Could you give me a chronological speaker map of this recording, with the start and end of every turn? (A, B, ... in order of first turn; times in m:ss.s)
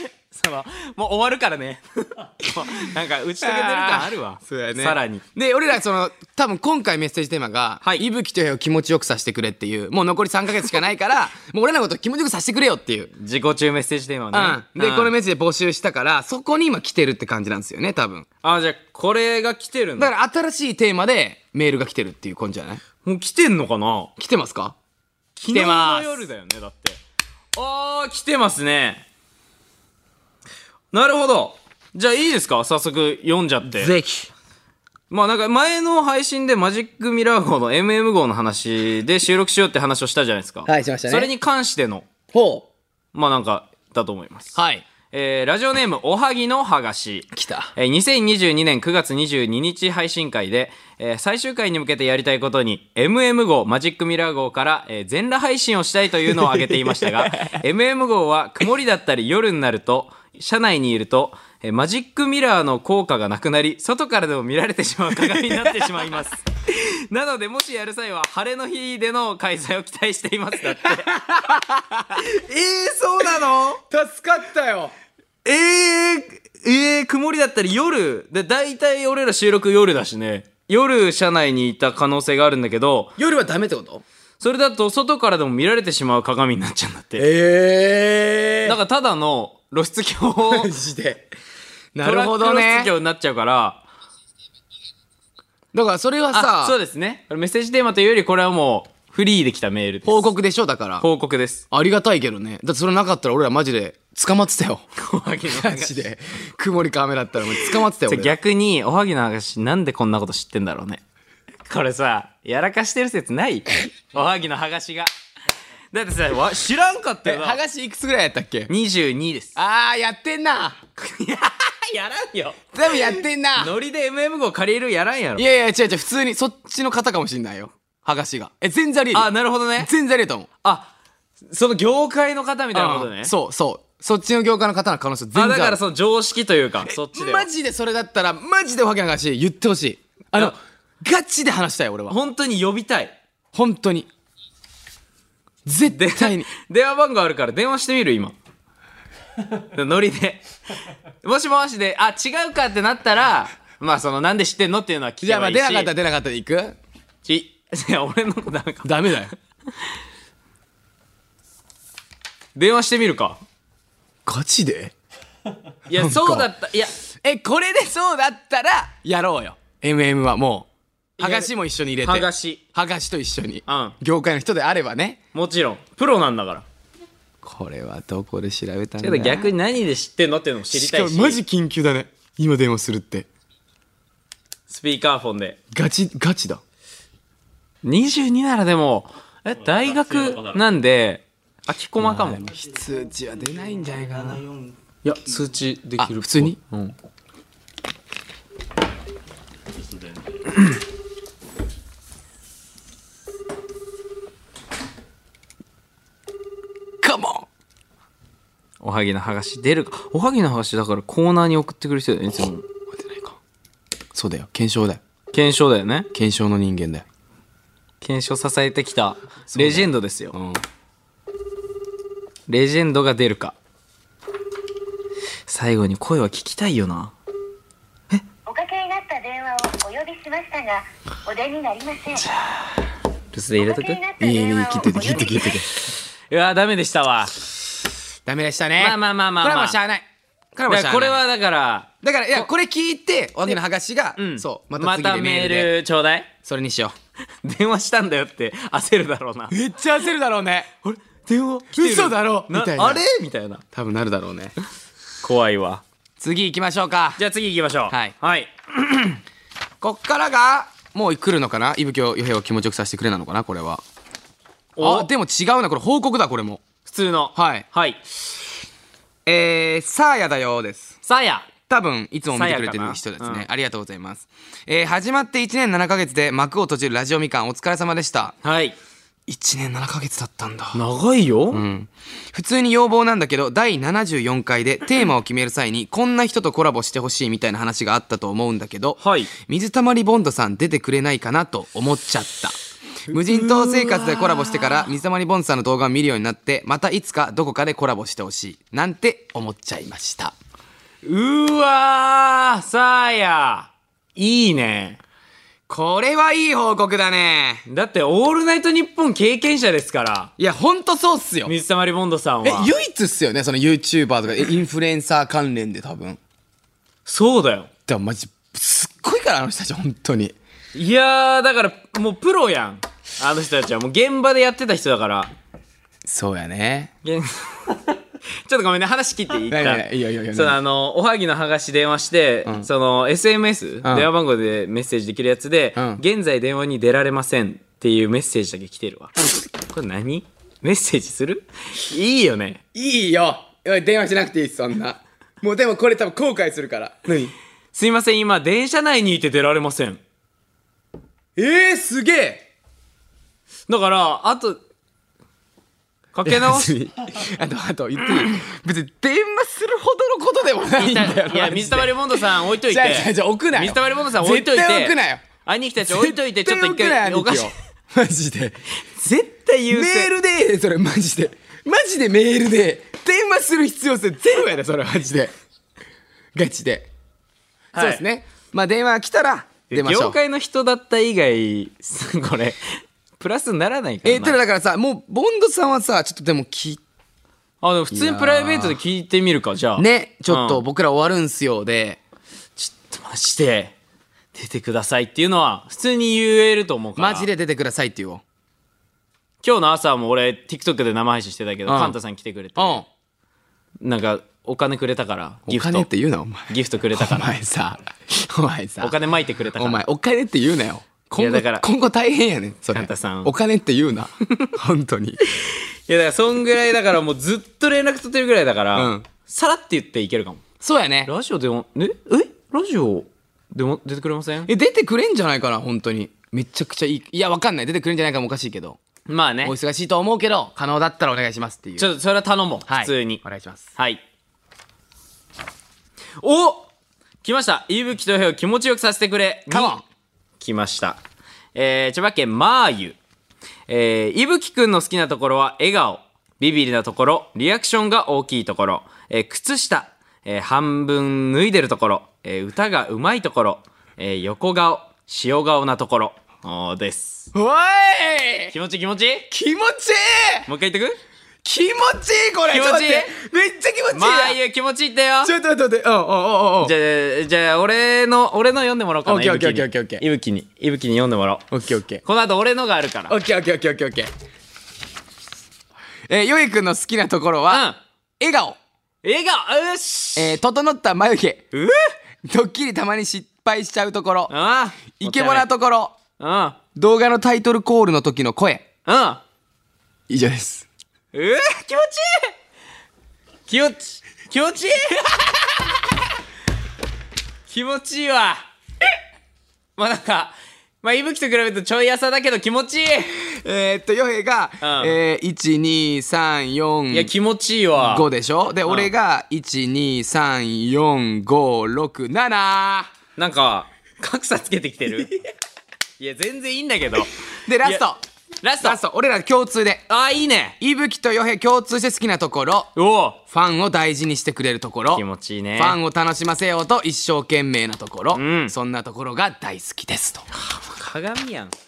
0:00.3-0:05.2 A
0:03.4-0:13.1 B
0:13.2-0:15.1 A
0:14.3-0:18.3 B
0:18.4-0:20.1 A
0:20.0-0:22.8 B
0:23.0-0:24.1 A
0:24.2-0:24.8 B
0:25.4-0:27.0 A
0:25.5-0:26.3 B
0:27.6-0:29.0 A
0:30.9-0:33.9 A
0:33.7-0:34.3 B
0:35.1-0:42.1 A
0:40.7-0:41.3 B
0:42.3-0:42.7 B
0:43.1-0:44.6 A
0:44.6-0:44.8 B
0:45.1-1:11.6 A
0:47.3-0:47.7 B
0:56.4-0:57.5 B
1:05.4-1:05.8 B
1:10.8-1:11.8 B
1:12.1-1:13.8 A
1:13.9-1:14.9 B
1:15.4-1:23.2 A
1:23.2-1:24.0 B
1:24.4-1:27.3 A
1:27.2-1:28.8 B
1:28.6-1:30.7 A
1:30.4-1:31.3 B
1:32.0-1:32.9 B
1:32.0-1:33.8 A
1:35.7-1:36.8 B
1:36.3-1:40.3 A
1:40.0-1:41.1 B
1:41.0-1:41.7 A
1:41.7-1:44.8 B
1:45.0-1:46.0 A
1:45.5-1:48.4 B
1:47.6-1:51.0 A
1:51.7-1:55.1 A
1:55.9-1:57.6 A
1:57.2-1:58.7 B
1:58.7-1:59.6 A
1:59.6-2:00.8 B
2:01.0-2:05.4 A
2:02.7-2:03.7 B
2:05.4-2:10.5 B
2:09.1-2:09.9 A
2:10.6-2:10.9 A
2:11.5-2:13.3 A
2:12.7-2:15.8 B
2:15.3-2:17.5 A
2:16.9-2:22.2 B
2:22.1-2:23.2 A
2:23.5-2:24.1 B
2:25.6-2:26.5 B
2:25.9-2:28.4 A
2:29.6-2:30.4 A
2:31.2-2:35.9 A
2:35.2-2:36.8 B
2:37.2-2:39.2 A
2:38.8-2:39.3 B
2:42.6-2:43.4 A
2:44.3-2:44.9 B
2:45.9-2:46.9 A
2:45.9-2:46.5 B
2:47.2-2:50.7 B
2:51.2-2:52.6 A
2:51.2-2:55.2 B
2:53.7-2:54.0 A
2:55.3-2:56.6 A
2:57.4-2:59.5 B
2:59.0-3:01.4 A
3:00.7-3:03.3 B
3:04.7-3:05.6 A
3:05.7-3:06.6 B
3:07.8-3:12.4 A
3:12.0-3:14.5 B
3:15.0-3:16.9 A
3:16.0-3:16.6 B
3:27.0-3:27.5 B
3:28.8-3:32.6 A
3:32.9-3:33.4 B
3:34.1-3:35.0 B
3:35.3-3:36.1 A
3:36.1-3:37.1 B
3:38.0-3:40.3 A
3:39.6-3:40.6 B
3:42.5-3:43.6 A
3:45.5-3:47.1 A
3:48.5-3:52.3 C
3:52.2-3:52.8 A
3:53.3-3:54.0 A
3:53.8-3:55.4 C
3:54.2-3:55.7 B
3:55.7-3:57.3 A
3:58.3-4:01.2 B
3:58.8-3:59.8 A
4:00.7-4:02.5 A
4:02.0-4:05.7 B
4:04.2-4:06.3 A
4:06.4-4:07.0 B
4:07.4-4:09.5 A
4:09.5-4:10.7 B
4:10.8-4:13.6 A
4:11.7-4:13.0 B
4:13.7-4:14.6 B
4:15.2-4:15.8 A
4:16.2-4:17.2 B
4:17.2-4:19.2 A
4:19.8-4:23.8 B
4:24.8-4:25.1 A
4:24.8-4:26.6 B
4:26.9-4:28.0 A
4:27.4-4:27.7 B
4:29.3-4:31.0 B
4:31.1-4:31.5 A
4:31.7-4:38.4 B
4:32.3-4:33.5 A
4:38.4-4:38.8 A
4:39.3-4:40.8 B
4:40.8-4:41.6 A
4:41.5-4:52.6 B
4:49.0-4:49.3 A
4:53.1-5:00.4 B
4:53.1-4:54.9 A
5:01.0-5:05.0 A
5:05.7-5:07.6 B
5:07.7-5:10.3 A
5:10.4-5:11.5 B
5:11.5-5:12.7 A
5:12.4-5:16.2 B
5:17.1-5:17.7 A
5:17.9-5:20.4 B
5:20.8-5:25.3 A
5:26.1-5:26.9 B
5:27.0-5:42.6 A
5:29.5-5:30.6 B
5:33.8-5:34.1 B
5:35.8-5:36.0 B
5:42.7-5:47.3 B
5:47.7-5:50.0 A
5:51.4-5:52.5 B
5:53.7-5:54.6 A
5:56.1-5:56.8 A
5:56.3-6:05.2 B
6:00.8-6:07.5 A
6:05.8-6:08.6 B
6:08.9-6:10.1 A
6:09.7-6:15.3 B
6:16.4-6:16.9 B
6:17.7-6:18.0 A
6:17.8-6:20.2 B
6:19.7-6:22.6 A
6:23.2-6:24.4 A
6:24.0-6:26.8 B
6:27.6-6:30.6 A
6:27.9-6:28.8 B
6:29.8-6:32.0 B
6:32.6-6:33.8 A
6:34.3-6:37.3 A
6:37.0-6:38.2 B
6:39.4-6:42.8 A
6:41.7-6:42.0 B
6:42.6-6:42.9 B
6:43.8-6:45.9 A
6:45.5-6:49.0 B
6:46.5-6:47.3 A
6:48.8-6:49.8 A
6:49.6-6:55.3 B
6:51.2-6:51.6 A
6:52.7-6:53.3 A
6:55.4-7:00.4 A
6:58.7-6:59.1 B
7:00.6-7:01.1 B
7:01.1-7:04.5 A
7:04.5-7:08.8 B
7:09.1-7:09.5 A
7:09.4-7:11.9 B
7:11.8-7:13.2 A
7:12.7-7:13.7 B
7:16.2-7:16.7 A
7:17.2-7:19.8 A
7:19.5-7:19.8 B
7:20.4-7:21.0 A
7:21.6-7:23.0 A
7:23.7-7:37.3 A
7:37.3-7:38.6 B
7:38.5-7:39.3 A
7:39.3-7:40.5 B
7:40.5-7:41.0 A
7:41.4-7:44.4 B
7:42.5-7:43.1 A
7:43.9-7:45.3 A
7:45.2-7:46.8 B
7:46.6-7:51.5 A
7:49.0-7:50.0 B
7:51.5-7:52.0 B
7:52.0-7:53.2 A
7:53.1-7:54.1 B
7:56.1-7:57.7 B
7:57.5-7:57.8 A
7:58.2-7:58.6 B
7:59.0-8:00.4 A
8:00.2-8:01.4 B
8:02.2-8:04.3 B
8:04.3-8:05.5 A
8:05.0-8:06.0 B
8:06.2-8:06.6 A
8:06.8-8:08.6 B
8:08.9-8:09.2 A
8:10.1-8:10.7 B
8:11.1-8:12.3 A
8:13.5-8:15.7 A
8:17.5-8:18.4 A
8:19.8-8:23.2 A
8:23.4-8:27.1 B
8:24.6-8:25.0 A
8:26.9-8:28.1 A
8:27.8-8:32.9 B
8:33.2-8:35.1 A
8:36.0-8:37.8 A
8:37.5-8:38.0 B
8:38.4-8:38.8 A
8:38.6-8:39.9 B
8:39.9-8:40.6 A
8:40.6-8:42.7 B
8:42.8-8:43.2 A
8:43.3-8:45.0 B
8:44.9-8:45.8 A
8:45.6-8:50.3 B
8:48.1-8:48.5 A
8:50.4-8:51.5 A